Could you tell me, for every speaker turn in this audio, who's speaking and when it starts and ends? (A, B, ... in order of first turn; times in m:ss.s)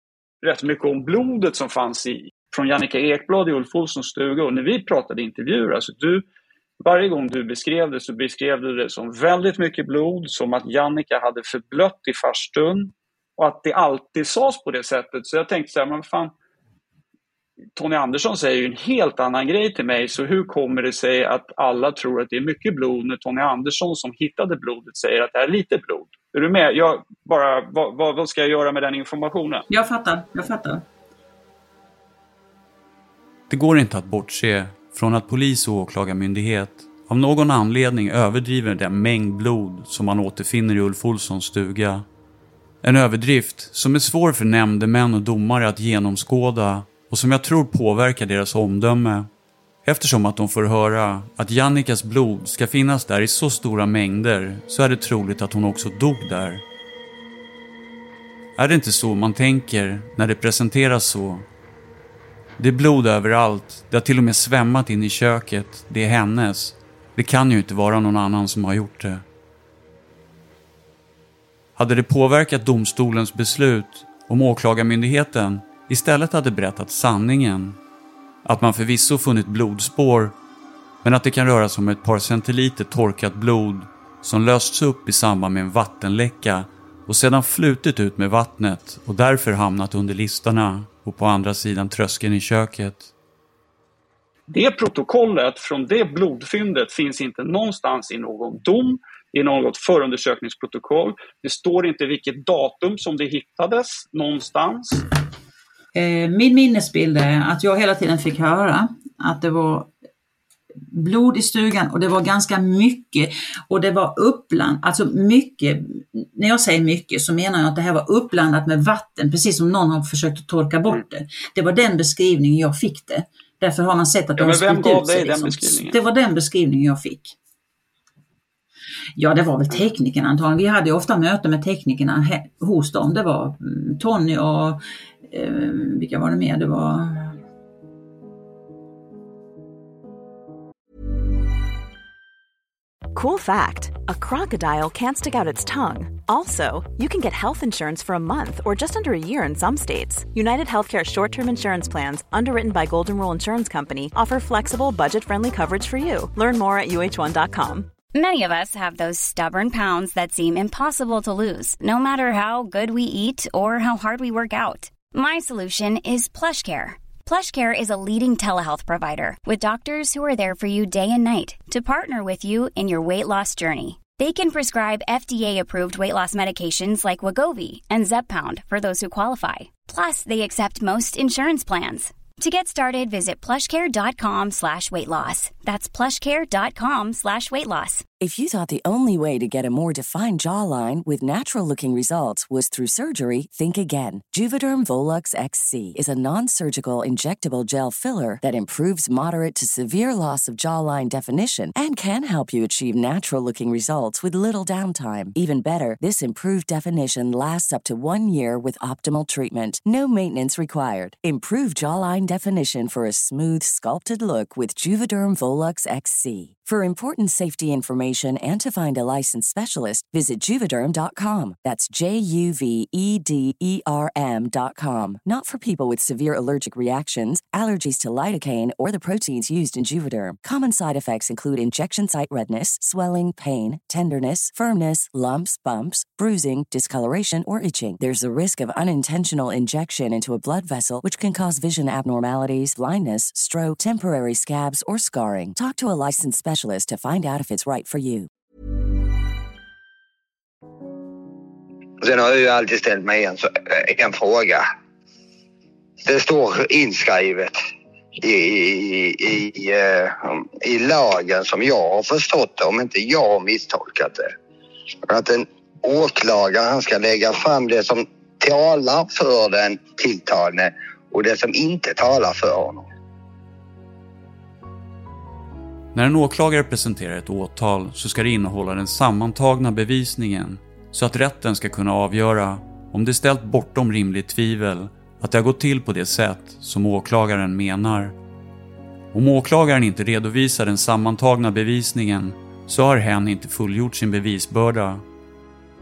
0:00.4-0:06.2 A
0:06.8-0:16.3 A
0:17.8-0:29.6 A
0:29.7-0:30.8 B
0:33.5-0:42.1 C
0:42.8-0:49.3 C
0:49.8-0:56.6 C
0:58.6-1:01.5 C
1:02.6-1:09.2 C
1:11.8-1:17.8 C
1:18.4-1:20.4 C
1:21.0-1:33.1 C
1:34.5-1:45.1 A
1:46.0-1:49.9 B
1:50.9-2:07.4 B
2:04.4-2:06.0 A
2:09.2-2:17.4 B
2:23.1-2:37.9 D
2:38.1-3:08.1 E
3:08.2-4:08.3 F
4:12.0-4:14.7 G
4:16.0-4:17.6 G
4:18.2-4:24.3 G
4:25.1-4:32.9 G
4:35.9-4:48.2 C
4:49.1-4:55.0 C